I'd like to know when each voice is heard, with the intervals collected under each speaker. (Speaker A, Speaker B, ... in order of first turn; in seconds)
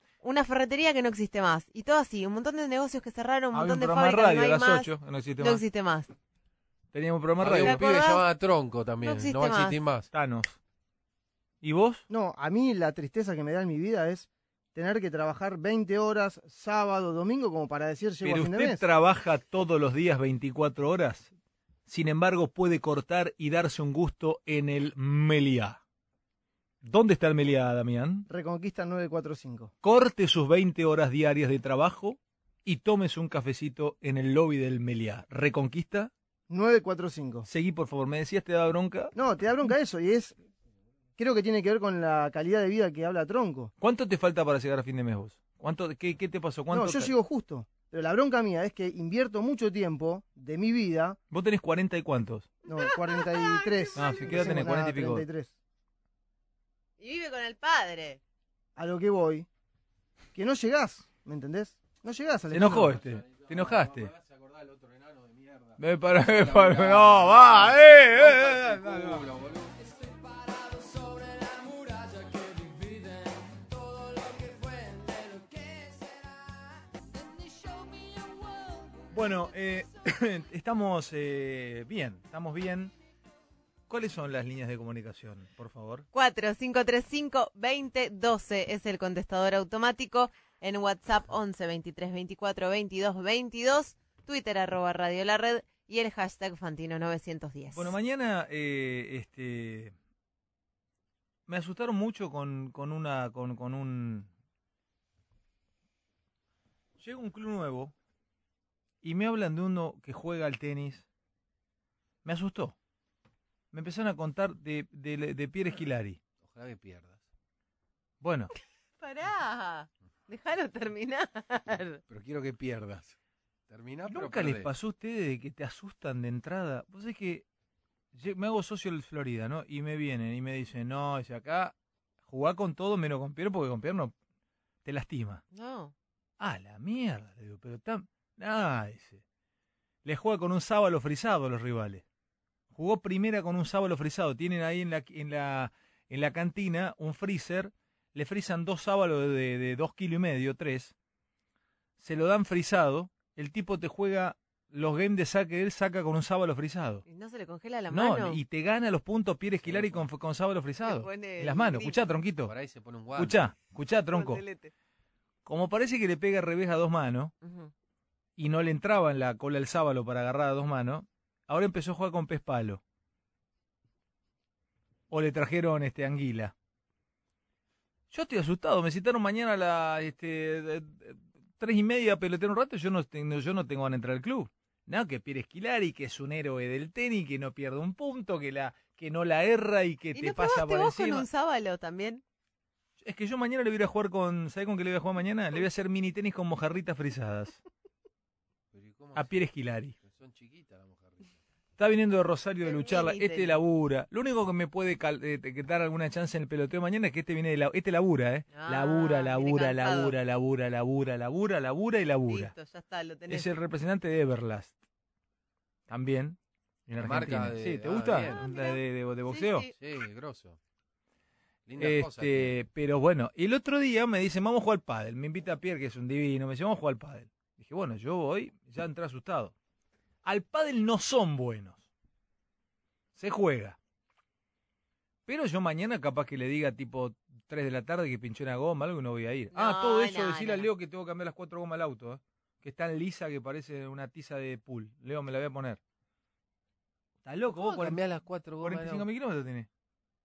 Speaker A: 0.2-6.1, 7.5-8.2, 9.0-9.8, 52.7-54.5, 57.0-58.2, 86.1-97.9, 119.0-122.0, 135.5-135.9, 157.1-158.4, 160.8-162.0, 164.1-164.7, 167.4-167.7, 190.1-192.2, 202.6-203.6, 208.5-210.1, 212.3-213.5, 218.2-219.7, 239.5-240.7
Speaker B: 3.5-5.6, 6.9-7.8, 10.1-10.6, 11.6-12.1, 18.2-21.3, 21.9-25.8, 26.8-28.3, 29.8-36.1, 37.5-39.1, 43.8-47.1, 51.3-52.5, 54.0-55.2, 62.5-64.1, 65.8-69.2, 79.1-82.9, 83.9-86.1, 97.7-100.0, 101.5-104.3, 107.0-107.9, 109.0-111.0, 112.2-112.8, 113.7-116.2, 118.2-118.5, 124.1-127.5, 128.1-131.8, 132.3-134.1, 134.8-135.4, 136.4-139.2, 140.0-142.0, 142.7-150.9, 152.0-157.0, 157.9-162.5, 163.2-164.4, 165.4-167.3, 168.4-172.8, 175.1-176.5, 178.1-191.3, 193.0-197.6, 199.2-199.9, 201.8-212.5, 213.3-214.8, 215.9-219.7, 221.8-229.5, 230.2-231.9, 233.2-233.8, 235.3-245.8, 247.2-248.0, 248.6-249.7
Speaker C: 7.4-10.1, 62.9-76.1, 116.4-117.2, 122.1-123.2, 123.7-124.7, 159.6-160.1, 162.4-163.4, 198.7-199.5, 200.0-201.4, 217.0-218.4, 219.8-220.6, 221.7-222.6, 247.6-249.1
Speaker D: 12.1-18.8, 28.3-29.7, 36.5-37.5, 39.1-40.4, 41.2-43.7, 46.7-51.2, 52.7-55.5, 58.8-59.5, 60.4-62.9